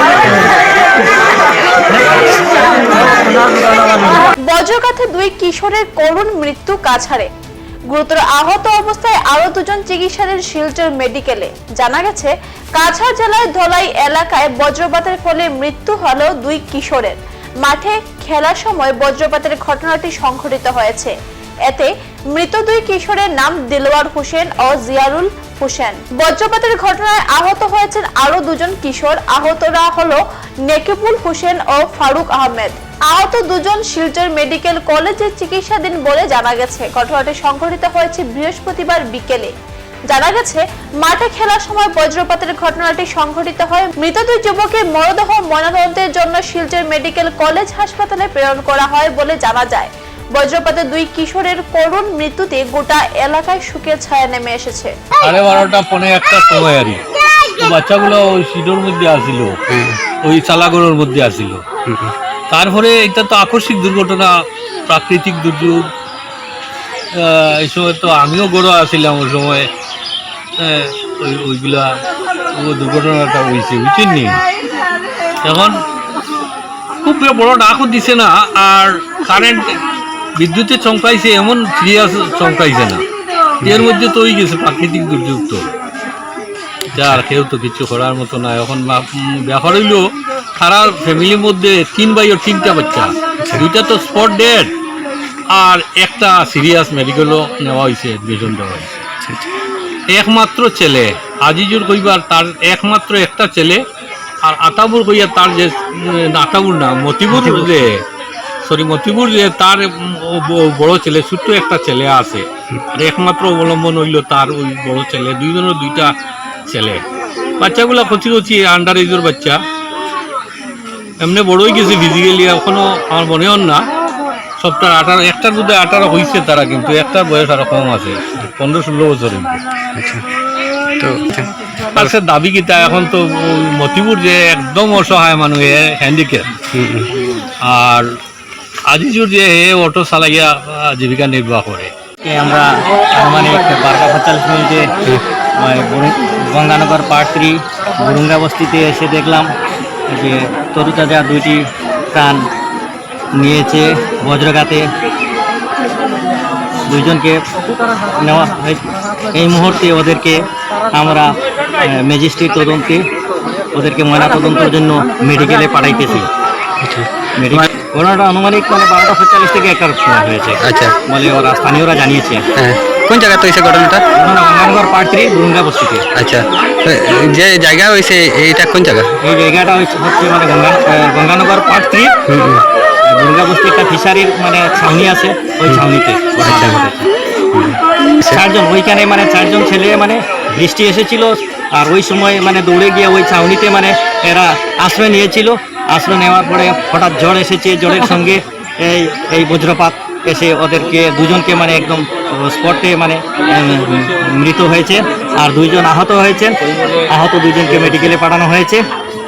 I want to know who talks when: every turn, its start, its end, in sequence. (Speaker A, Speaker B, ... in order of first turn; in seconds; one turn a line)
Speaker A: 4.2-7.3
Speaker A: 7.9-21.1
Speaker A: 21.7-39.5
Speaker A: 40.1-55.0
Speaker B: 55.2-57.0
Speaker B: 57.6-59.6
Speaker C: 59.7-60.0
Speaker B: 60.2-61.6
Speaker C: 61.9-62.1
Speaker B: 62.5-64.3
Speaker B: 64.9-65.9
Speaker B: 67.2-69.7
Speaker B: 70.6-71.9
Speaker B: 72.6-74.4
Speaker B: 75.4-75.8
Speaker B: 77.0-79.8
Speaker B: 80.4-83.0
Speaker B: 83.6-85.7
Speaker B: 86.9-90.0
Speaker B: 90.6-94.7
Speaker B: 95.5-99.1
Speaker B: 100.1-103.8
Speaker B: 104.5-108.0
Speaker C: 107.3-107.9
Speaker B: 108.6-116.1
Speaker B: 116.7-117.0
Speaker B: 117.6-119.6
Speaker B: 121.2-123.9
Speaker B: 124.6-129.6
Speaker C: 129.9-130.2
Speaker C: 131.0-131.5
Speaker B: 131.9-136.5
Speaker C: 136.7-137.1
Speaker B: 137.6-138.1
Speaker B: 138.9-141.9
Speaker D: 142.2-144.9
Speaker D: 145.6-149.5
Speaker D: 150.1-152.4
Speaker D: 153.4-154.8
Speaker D: 156.9-157.4
Speaker D: 158.1-158.8
Speaker D: 159.3-163.0
Speaker D: 163.7-166.3
Speaker C: 166.8-167.7
Speaker D: 167.4-172.5
Speaker C: 170.6-171.0
Speaker C: 172.6-174.1
Speaker D: 174.2-176.0
Speaker C: 176.2-179.1
Speaker D: 179.2-182.1
Speaker C: 182.3-182.7
Speaker D: 183.1-187.1
Speaker C: 186.4-186.8
Speaker C: 187.5-188.4
Speaker D: 188.2-206.6
Speaker D: 207.1-208.8